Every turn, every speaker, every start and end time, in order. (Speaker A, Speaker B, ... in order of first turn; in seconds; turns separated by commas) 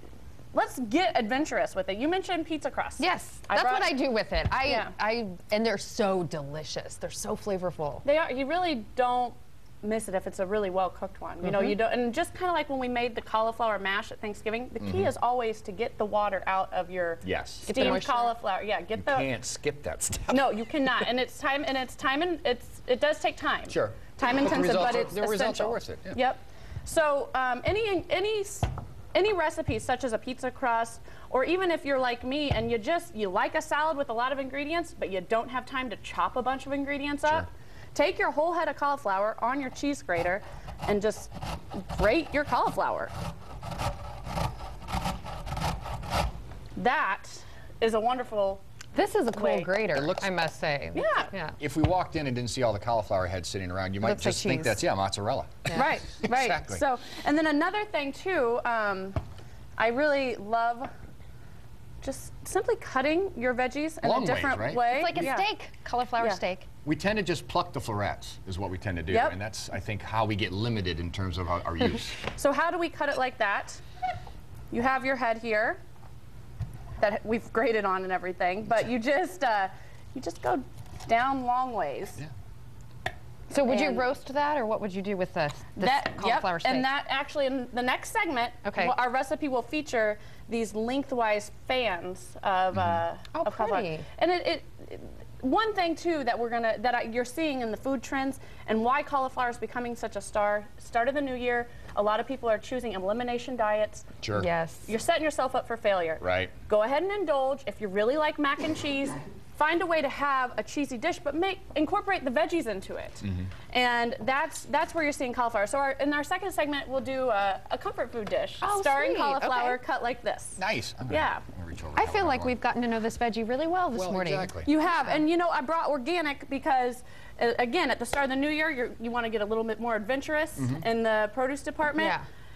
Speaker A: 0.5-4.0, Speaker B: 3.0-8.0, Speaker A: 4.6-4.9, Speaker A: 8.0-19.3, Speaker B: 11.4-11.8, Speaker C: 14.8-15.1, Speaker C: 17.2-17.9, Speaker B: 17.6-18.3, Speaker C: 18.9-21.1, Speaker A: 20.3-43.1, Speaker C: 23.7-26.2, Speaker A: 46.8-48.6, Speaker B: 48.9-51.6, Speaker A: 49.3-49.7, Speaker C: 49.9-50.3, Speaker A: 50.9-51.3, Speaker C: 51.6-56.8, Speaker B: 54.0-54.8, Speaker A: 55.7-59.2, Speaker A: 59.8-60.9, Speaker A: 62.0-65.5, Speaker C: 64.0-65.3, Speaker B: 64.8-66.7, Speaker C: 66.8-72.2, Speaker A: 69.1-69.4, Speaker A: 72.3-73.8, Speaker A: 74.7-75.8, Speaker A: 77.0-82.2, Speaker B: 83.5-86.9, Speaker A: 83.6-84.1, Speaker A: 85.8-104.1, Speaker B: 88.6-88.9, Speaker C: 92.7-93.0, Speaker B: 93.3-94.0, Speaker C: 104.2-104.5, Speaker B: 104.3-104.9, Speaker A: 104.9-121.4, Speaker C: 106.2-106.5, Speaker C: 113.2-113.5, Speaker B: 118.6-119.8, Speaker C: 120.6-122.5, Speaker B: 121.9-125.2, Speaker C: 123.9-124.7, Speaker A: 124.6-132.2, Speaker C: 130.6-130.8, Speaker B: 132.0-132.2